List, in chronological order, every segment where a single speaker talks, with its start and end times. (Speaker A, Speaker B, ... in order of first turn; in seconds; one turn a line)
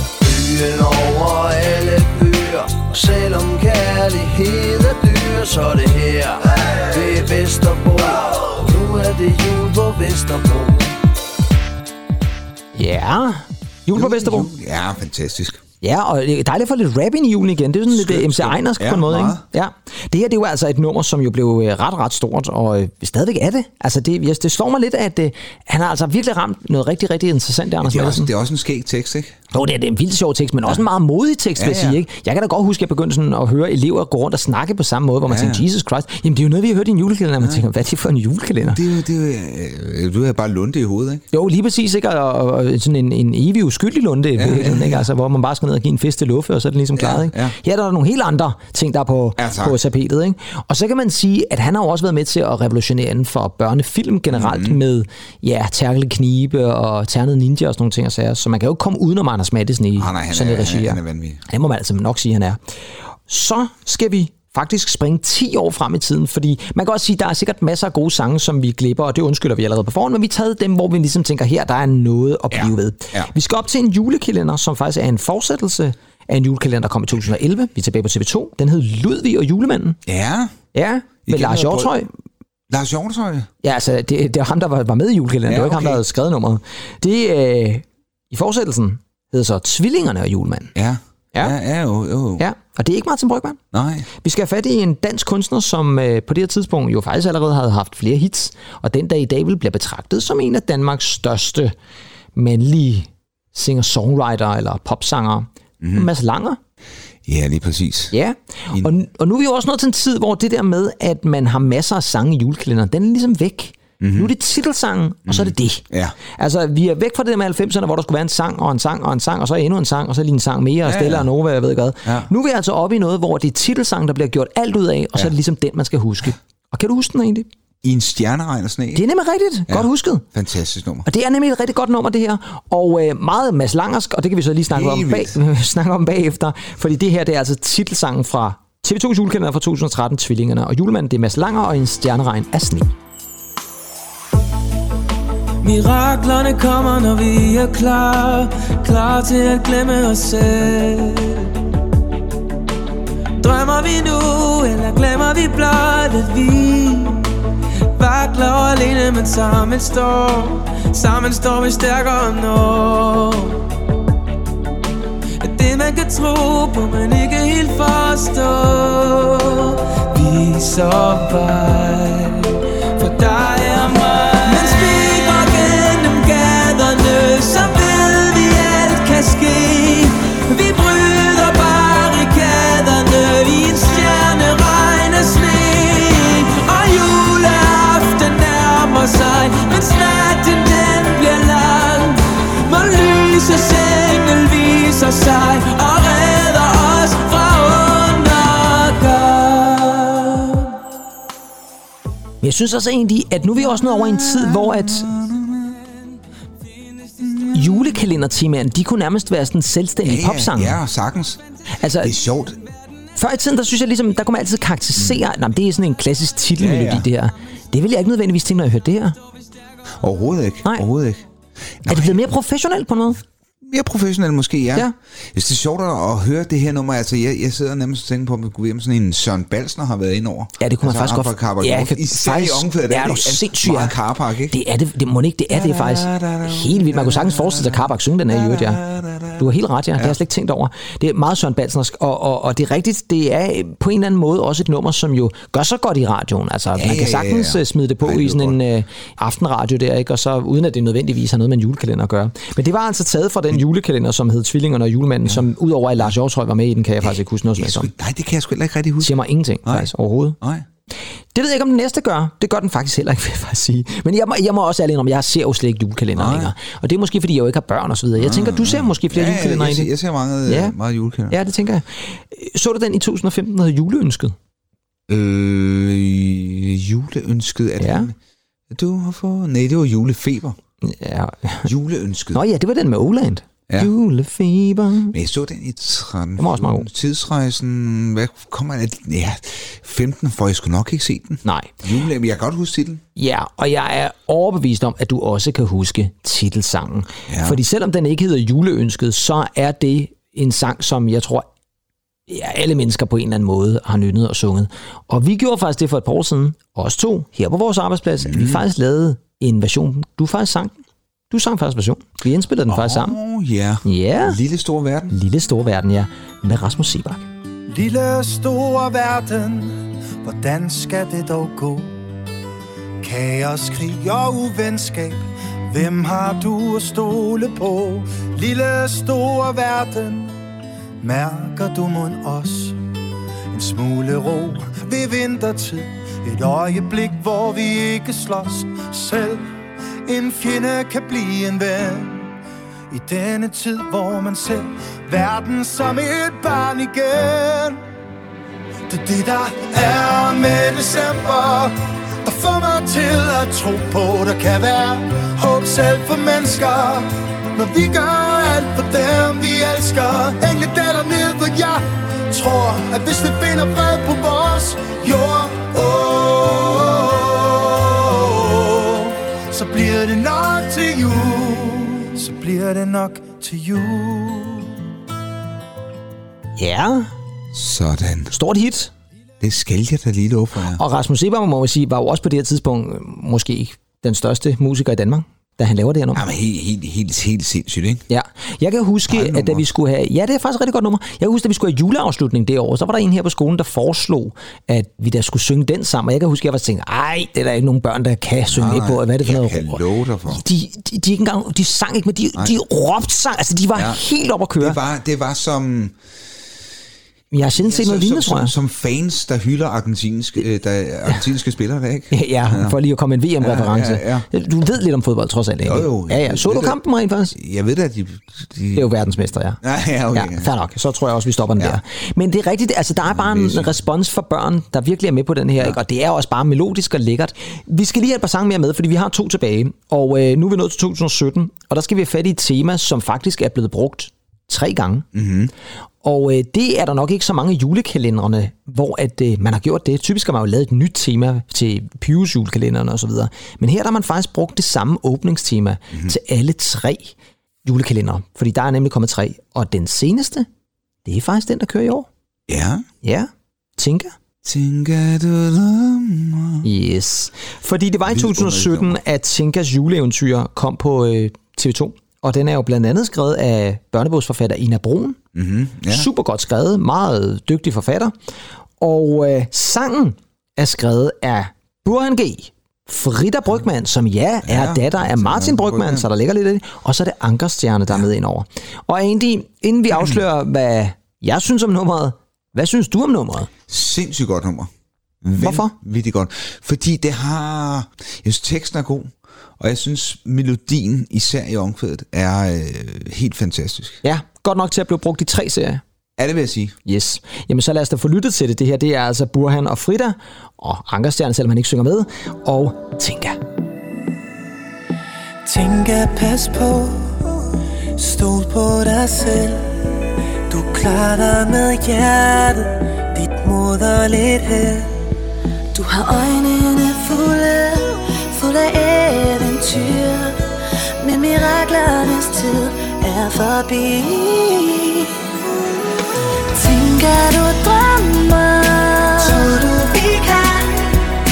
Speaker A: 0.2-6.4
Speaker A: 6.9-10.9
Speaker B: 12.8-14.5
Speaker C: 13.9-15.6
Speaker B: 15.8-28.3
Speaker C: 17.9-19.4
Speaker C: 27.8-29.4
Speaker B: 29.5-38.8
Speaker C: 31.6-32.0
Speaker C: 35.3-35.6
Speaker C: 38.6-41.2
Speaker B: 41.3-62.6
Speaker C: 44.4-45.1
Speaker C: 46.9-47.5
Speaker C: 49.4-49.8
Speaker C: 54.3-54.8
Speaker C: 60.0-61.4
Speaker B: 63.3-80.0
Speaker C: 72.5-73.3
Speaker C: 80.0-80.5
Speaker B: 80.7-82.1
Speaker C: 81.2-81.9
Speaker C: 82.7-83.5
Speaker B: 83.6-90.7
Speaker C: 85.5-86.0
Speaker C: 90.7-92.5
Speaker B: 92.4-93.6
Speaker C: 93.7-94.1
Speaker B: 94.2-101.7
Speaker B: 102.3-106.6
Speaker C: 105.8-106.1
Speaker C: 107.2-108.1
Speaker B: 108.1-127.5
Speaker C: 114.0-114.3
Speaker C: 115.3-116.2
Speaker C: 120.8-121.3
Speaker C: 122.0-122.3
Speaker C: 127.8-129.1
Speaker B: 128.9-130.2
Speaker C: 129.7-131.1
Speaker B: 131.1-142.9
Speaker C: 134.7-135.4
Speaker D: 145.6-151.5
Speaker D: 153.4-157.3
Speaker D: 157.9-163.6
Speaker D: 165.4-200.7
Speaker B: 202.4-205.1
Speaker C: 203.5-205.8
Speaker C: 207.2-207.9
Speaker B: 207.5-210.8
Speaker C: 210.0-211.4
Speaker B: 211.8-212.1
Speaker C: 212.0-212.7
Speaker B: 213.2-219.2
Speaker C: 214.9-215.2
Speaker C: 216.6-217.1
Speaker C: 220.0-221.3
Speaker C: 221.8-222.3
Speaker B: 221.9-223.2
Speaker C: 223.6-234.6
Speaker B: 230.6-233.9
Speaker B: 234.5-238.8
Speaker C: 235.5-240.2
Speaker B: 239.4-257.9
Speaker C: 246.7-248.6
Speaker C: 257.0-260.6
Speaker B: 259.0-260.4
Speaker B: 261.3-269.9
Speaker C: 266.1-266.5
Speaker C: 268.2-271.4
Speaker B: 270.4-270.7
Speaker B: 271.3-274.4
Speaker C: 275.1-278.1
Speaker B: 277.8-278.1
Speaker C: 278.7-280.6
Speaker B: 280.9-281.7
Speaker C: 281.6-282.4
Speaker B: 282.3-285.1
Speaker C: 285.1-293.0
Speaker B: 286.4-286.9
Speaker B: 291.4-291.7
Speaker B: 293.1-301.5
Speaker C: 297.3-297.6
Speaker B: 302.3-310.8
Speaker C: 308.2-308.6
Speaker B: 311.3-313.1
Speaker C: 312.7-315.2
Speaker B: 313.8-314.4
Speaker B: 315.1-317.2
Speaker E: 317.7-322.0
Speaker E: 323.0-330.3
Speaker E: 331.0-332.8
Speaker E: 333.5-339.5
Speaker E: 340.0-342.3
Speaker E: 342.9-347.8
Speaker E: 348.9-374.8
Speaker B: 376.6-377.1
Speaker C: 377.5-378.3
Speaker B: 378.3-378.9
Speaker C: 379.4-380.8
Speaker B: 380.8-386.2
Speaker C: 386.1-388.0
Speaker B: 388.1-404.8
Speaker C: 389.1-389.6
Speaker C: 398.5-400.4
Speaker C: 402.4-402.6
Speaker C: 403.7-404.0
Speaker C: 404.6-405.9
Speaker B: 407.3-408.5
Speaker C: 407.6-412.8
Speaker B: 412.1-417.3
Speaker C: 413.4-414.2
Speaker C: 415.6-416.8
Speaker C: 417.3-420.5
Speaker B: 418.7-419.6
Speaker B: 420.1-435.1
Speaker C: 423.0-423.8
Speaker C: 435.1-435.5
Speaker B: 436.0-447.1
Speaker C: 445.9-446.2
Speaker B: 447.6-450.5
Speaker B: 451.0-452.1
Speaker C: 452.5-452.9
Speaker B: 453.0-454.1
Speaker C: 454.4-456.7
Speaker B: 456.6-465.2
Speaker C: 458.0-459.0
Speaker C: 465.3-466.1
Speaker B: 465.9-468.1
Speaker B: 468.8-483.5
Speaker C: 474.4-476.1
Speaker C: 479.9-480.2
Speaker C: 483.7-484.7
Speaker C: 485.2-494.0
Speaker B: 485.4-485.7
Speaker B: 494.0-495.8
Speaker C: 496.2-496.8
Speaker B: 496.8-503.4
Speaker F: 505.4-507.3
Speaker F: 507.9-509.7
Speaker F: 510.5-514.9
Speaker G: 515.7-520.4
Speaker G: 521.0-525.1
Speaker G: 526.5-530.9